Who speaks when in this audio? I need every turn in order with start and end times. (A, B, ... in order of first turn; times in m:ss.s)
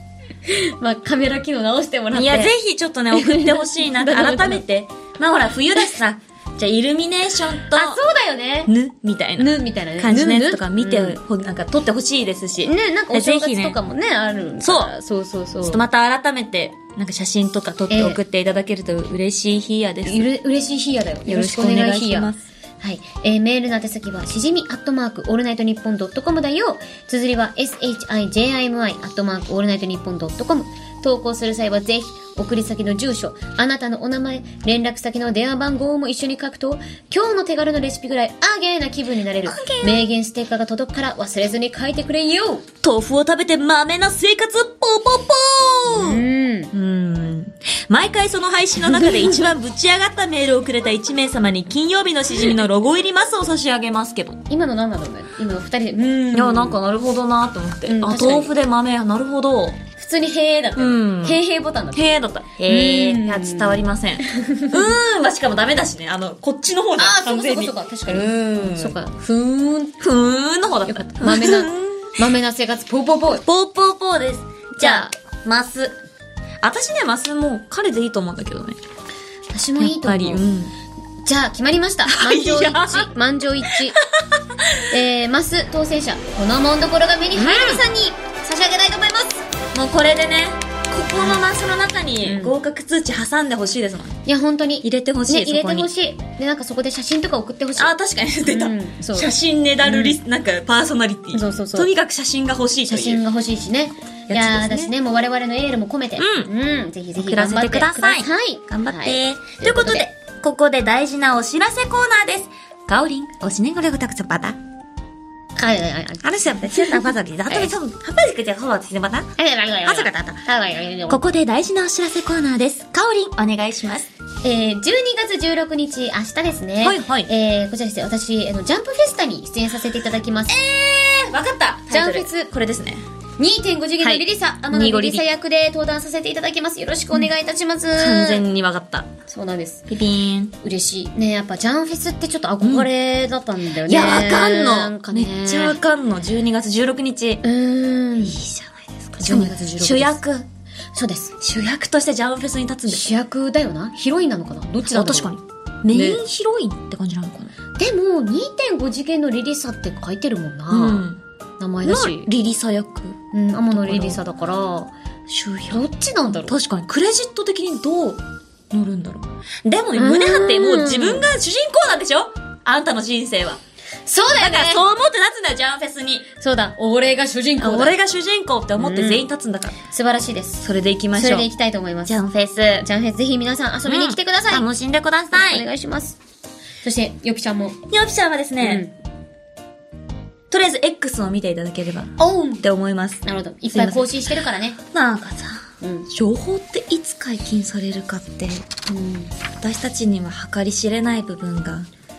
0:00.4-0:02.5 A
0:02.1-0:08.0 B
0:03.1-0:04.6 A
0:07.7-0:08.7 A
0:08.7-0:13.8 B
0:09.4-0:11.2 A
0:12.6-0:15.8 A
0:14.6-0:14.9 B
0:15.6-0:20.3 B
0:17.9-0:18.2 A
0:20.0-0:42.7 A
0:21.2-0:22.4 B
0:39.4-0:40.0 B
0:42.8-0:54.4 B
0:45.9-0:46.7 A
0:54.5-0:56.8 A
0:56.3-0:59.8 B
0:57.8-0:58.5 A
1:00.0-1:04.9 A
1:00.8-1:01.4 B
1:01.9-1:09.0 B
1:07.0-1:10.0 A
1:10.0-1:12.1 B
1:10.9-1:13.4 A
1:13.4-1:16.0 B
1:14.8-1:15.1 A
1:16.6-1:18.8 B
1:19.5-1:20.4 A
1:19.8-1:20.7 B
1:21.2-1:24.0 A
1:22.0-1:23.1 B
1:23.7-1:24.8 B
1:24.9-1:29.4 A
1:27.3-1:27.8 B
1:29.7-1:34.2 B
1:32.2-1:32.6 A
1:34.2-1:40.2 A
1:34.8-1:35.9 B
1:37.8-1:43.2 B
1:41.3-1:41.9 A
1:42.9-1:50.1 A
1:44.3-1:44.9 B
1:46.2-1:46.5 B
1:47.1-1:54.6 B
1:55.6-1:57.7 A
1:56.2-1:59.3 B
1:59.4-2:01.2 A
1:59.8-2:00.2 B
2:01.1-2:04.1 B
2:04.4-2:10.6 A
2:06.8-2:07.3 B
2:10.5-2:13.0 B
2:11.9-2:12.5 A
2:13.4-2:18.4 A
2:14.0-2:15.2 B
2:18.0-2:19.1 B
2:19.3-2:19.9 A
2:19.9-2:20.5 B
2:20.6-2:25.8 A
2:22.6-2:22.9 B
2:23.8-2:27.4 B
2:27.4-2:28.4 A
2:28.2-2:30.5 B
2:29.2-2:30.2 A
2:30.9-2:31.3 A
2:31.4-2:33.1 B
2:32.9-2:35.3 A
2:34.8-2:37.5 B
2:35.9-2:36.2 A
2:37.8-2:41.1 A
2:40.7-2:41.2 B
2:41.6-2:42.3 A
2:41.8-2:43.2 B
2:43.3-2:44.9 A
2:43.7-2:44.2 B
2:45.3-2:45.8 B
2:45.7-2:46.6 A
2:46.5-2:53.6 B
2:49.9-2:51.3 A
2:54.0-2:54.8 A
2:54.2-2:56.3 B
2:56.4-2:57.9 A
2:57.6-2:59.8 B
2:58.8-2:59.2 A
2:59.9-3:00.6 A
3:00.6-3:01.5 B
3:01.1-3:02.2 A
3:02.0-3:02.8 B
3:02.8-3:04.7 A
3:03.9-3:05.7 B
3:05.3-3:06.2 A
3:06.8-3:07.8 A
3:07.9-3:08.8 B
3:08.6-3:08.9 A
3:10.5-3:14.2 B
3:12.2-3:12.6 A
3:13.2-3:14.8 A
3:14.8-3:18.6 B
3:15.8-3:16.1 A
3:18.9-3:19.3 A
3:19.6-3:21.9 B